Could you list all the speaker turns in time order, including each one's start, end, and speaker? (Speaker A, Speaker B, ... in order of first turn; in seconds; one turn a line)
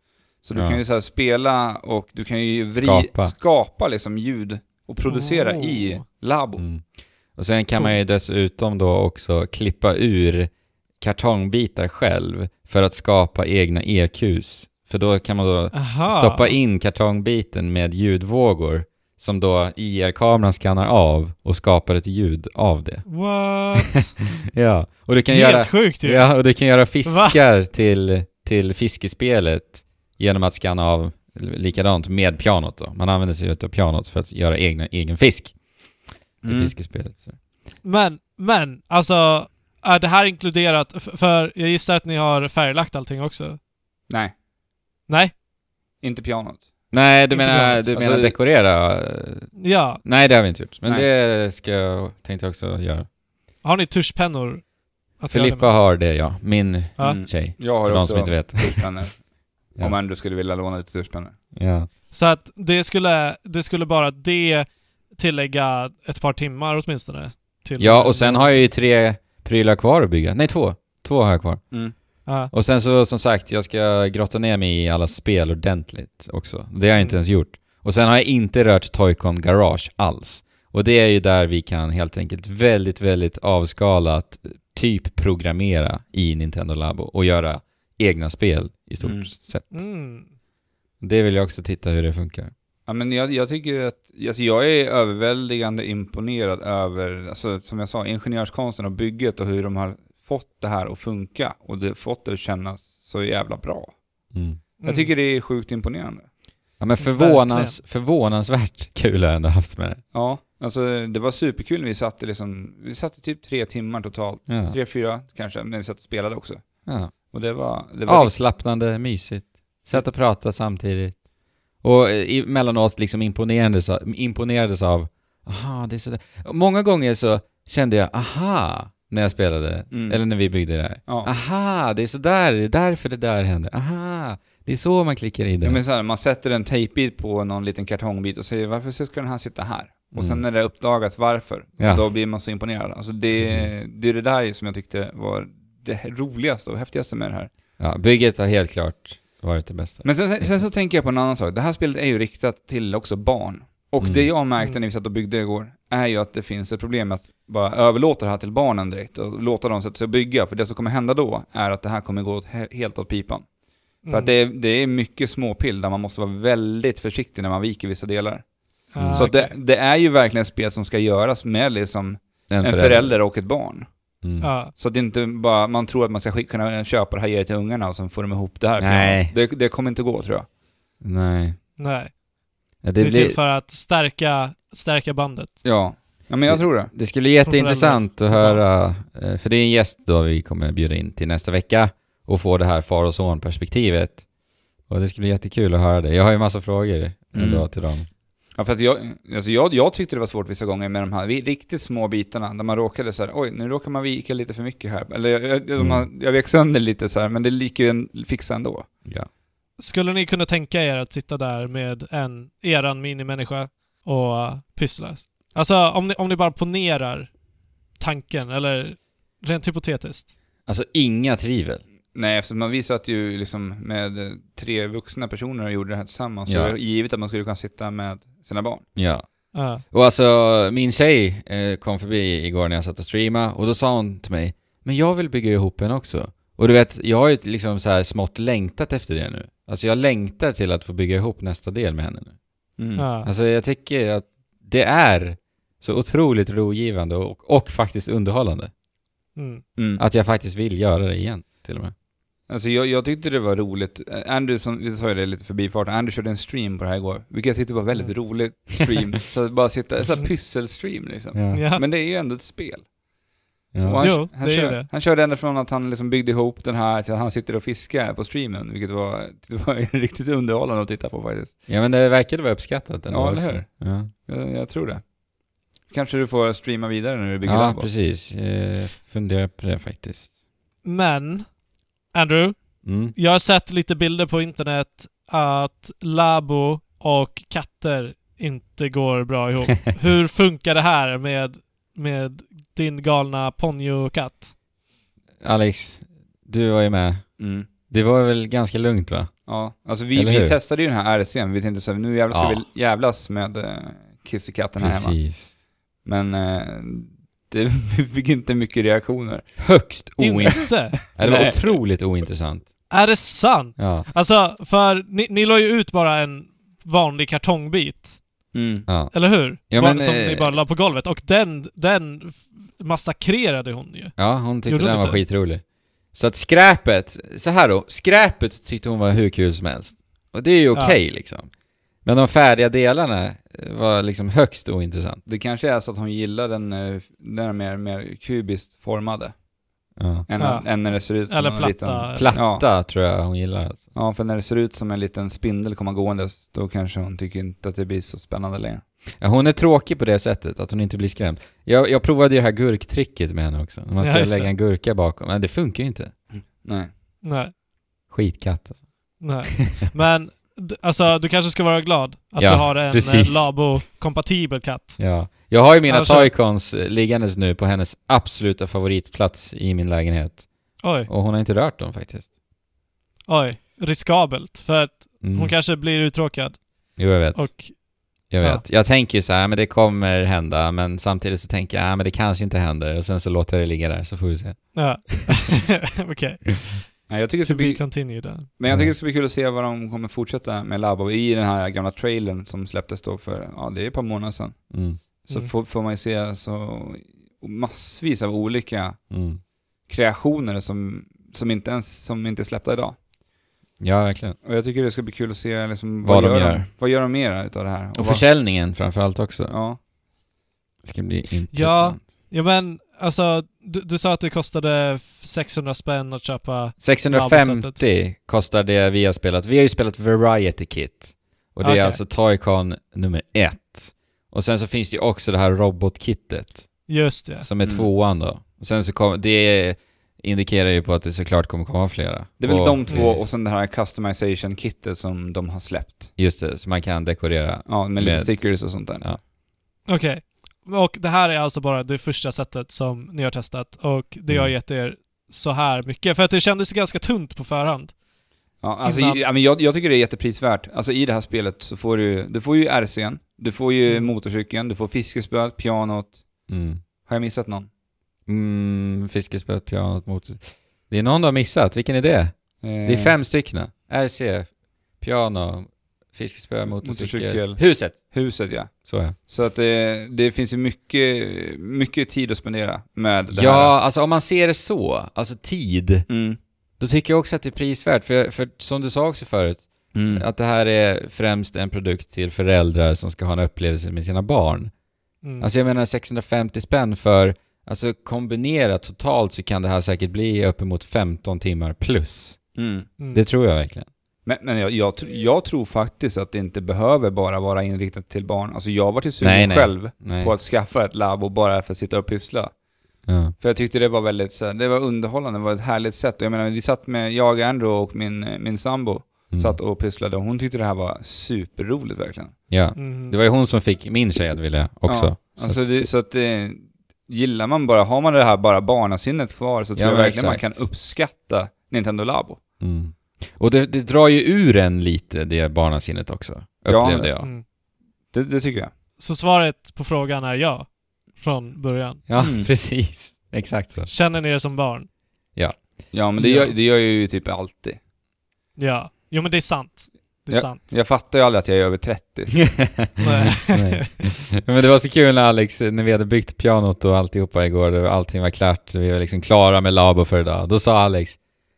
Speaker A: 0.4-6.6
Speaker B: 0.6-0.8
Speaker B: 2.7-3.3
Speaker C: 5.1-6.0
Speaker B: 6.6-6.8
Speaker B: 7.4-23.1
Speaker C: 15.7-16.6
Speaker C: 23.1-24.1
Speaker B: 23.8-35.6
Speaker C: 25.3-26.3
Speaker C: 27.1-27.4
Speaker A: 36.4-36.7
Speaker B: 36.4-37.4
Speaker C: 37.8-43.6
Speaker C: 45.1-45.3
Speaker A: 46.0-46.6
Speaker B: 46.9-53.1
Speaker C: 47.3-47.8
Speaker A: 47.9-48.3
Speaker C: 49.6-50.0
Speaker C: 53.6-54.6
Speaker C: 55.2-55.7
Speaker B: 55.3-58.9
Speaker A: 57.0-59.2
Speaker A: 59.8-61.4
Speaker B: 61.5-61.9
Speaker C: 62.1-68.7
Speaker B: 67.8-71.6
Speaker C: 72.3-72.5
Speaker B: 72.5-89.7
Speaker A: 89.0-89.3
Speaker C: 89.7-90.3
Speaker B: 91.0-92.5
Speaker A: 92.9-103.9
Speaker B: 104.3-104.6
Speaker C: 104.8-105.1
Speaker A: 104.8-106.3
Speaker B: 106.8-110.0
Speaker C: 107.0-107.8
Speaker A: 110.1-116.6
Speaker B: 114.5-114.8
Speaker B: 116.9-117.1
Speaker A: 117.3-118.3
Speaker B: 118.1-121.2
Speaker B: 121.8-135.8
Speaker A: 129.9-130.2
Speaker A: 131.1-131.3
Speaker A: 135.6-147.5
Speaker B: 140.1-140.4
Speaker B: 141.8-142.1
Speaker B: 143.4-143.7
Speaker B: 147.8-150.6
Speaker A: 150.0-163.4
Speaker B: 154.0-154.3
Speaker C: 164.1-164.4
Speaker A: 164.1-168.4
Speaker C: 168.9-169.5
Speaker B: 169.0-169.3
Speaker A: 169.1-173.9
Speaker B: 172.5-173.2
Speaker B: 174.2-174.5
Speaker C: 174.4-174.7
Speaker A: 174.7-180.5
Speaker B: 178.8-179.3
Speaker B: 181.0-181.6
Speaker C: 181.8-182.2
Speaker B: 182.8-183.4
Speaker C: 183.0-185.6
Speaker A: 185.6-186.9
Speaker B: 186.5-194.2
Speaker C: 187.4-188.6
Speaker B: 194.9-198.1
Speaker A: 197.3-197.7
Speaker A: 198.6-208.9
Speaker B: 205.8-206.1
Speaker C: 209.8-217.3
Speaker C: 218.0-220.3
Speaker B: 220.7-221.8
Speaker A: 222.1-228.8
Speaker B: 226.5-226.8
Speaker B: 229.0-229.2
Speaker C: 229.5-229.8
Speaker B: 229.8-242.3
Speaker A: 242.8-243.1
Speaker C: 243.0-243.3
Speaker B: 243.2-248.7
Speaker C: 249.4-249.6
Speaker A: 249.8-250.0
Speaker B: 250.0-251.9
Speaker A: 252.5-262.9
Speaker B: 261.3-261.6
Speaker C: 261.5-261.8
Speaker B: 263.7-264.1
Speaker A: 263.8-271.6
Speaker C: 264.0-264.9
Speaker B: 271.7-274.1
Speaker A: 273.1-275.1
Speaker A: 275.9-277.9
Speaker B: 277.4-280.3
Speaker C: 280.8-281.5
Speaker C: 282.1-294.5
Speaker B: 282.8-283.1
Speaker B: 295.4-297.3
Speaker A: 297.4-297.7
Speaker B: 297.9-299.4
Speaker A: 299.5-305.2
Speaker B: 300.1-300.6
Speaker B: 302.3-302.6
Speaker B: 304.8-305.5
Speaker A: 306.0-309.6
Speaker B: 309.6-312.7
Speaker C: 310.2-311.0
Speaker A: 311.1-311.6
Speaker C: 312.9-318.2
Speaker B: 313.8-314.1
Speaker A: 318.5-318.9
Speaker B: 318.9-320.6
Speaker C: 319.1-325.2
Speaker B: 324.2-331.5
Speaker B: 332.0-335.2
Speaker A: 335.3-339.4
Speaker B: 340.0-340.3
Speaker A: 340.3-342.6
Speaker C: 340.4-340.7
Speaker C: 341.3-342.4
Speaker B: 342.1-343.9
Speaker A: 343.9-348.8
Speaker B: 349.2-356.1
Speaker C: 354.0-354.5
Speaker A: 356.3-356.9
Speaker C: 357.2-357.5
Speaker B: 358.1-358.8
Speaker C: 359.2-365.3
Speaker B: 362.4-363.6
Speaker B: 365.0-372.3
Speaker C: 365.9-366.3
Speaker C: 370.8-371.1
Speaker C: 373.3-378.6
Speaker B: 375.2-375.5
Speaker B: 377.0-377.8
Speaker B: 378.3-385.4
Speaker C: 384.8-388.5
Speaker A: 387.1-394.6
Speaker B: 394.7-395.0
Speaker A: 395.2-399.0
Speaker B: 399.1-399.4
Speaker A: 399.9-403.0
Speaker B: 403.8-404.4
Speaker A: 404.4-408.3
Speaker B: 406.0-406.7
Speaker B: 408.0-409.6
Speaker A: 409.5-409.8
Speaker B: 410.8-412.0
Speaker C: 411.5-417.9
Speaker B: 416.8-426.9
Speaker C: 421.6-422.0
Speaker C: 426.9-427.5
Speaker B: 427.4-433.2
Speaker A: 432.4-436.1
Speaker B: 436.2-439.2
Speaker A: 437.7-439.0
Speaker C: 439.9-447.9
Speaker A: 448.6-456.2
Speaker C: 448.8-449.2
Speaker C: 453.9-454.1
Speaker B: 456.5-456.8
Speaker A: 457.1-457.7
Speaker B: 458.3-468.1
Speaker A: 462.6-463.2
Speaker A: 466.8-473.7
Speaker B: 468.8-469.2
Speaker B: 473.3-476.1
Speaker A: 476.1-476.4
Speaker B: 476.8-484.7
Speaker A: 479.9-480.2
Speaker C: 485.2-485.5
Speaker B: 485.4-492.5
Speaker A: 492.6-492.9
Speaker C: 493.0-493.2
Speaker B: 493.1-493.9
Speaker A: 494.3-502.6
Speaker B: 499.2-500.3
Speaker B: 503.1-503.4
Speaker A: 503.4-512.4
Speaker B: 509.3-509.6
Speaker B: 512.5-515.7
Speaker C: 512.8-513.2
Speaker A: 514.9-522.4
Speaker B: 519.8-520.7
Speaker B: 522.6-527.3
Speaker A: 526.7-527.1
Speaker A: 528.1-528.7
Speaker C: 529.0-532.0
Speaker B: 532.1-533.9
Speaker A: 532.2-532.5
Speaker C: 533.9-534.9
Speaker A: 535.9-537.8
Speaker C: 536.2-536.5
Speaker C: 538.6-540.7
Speaker A: 540.3-542.6
Speaker B: 542.5-551.2
Speaker C: 543.0-543.9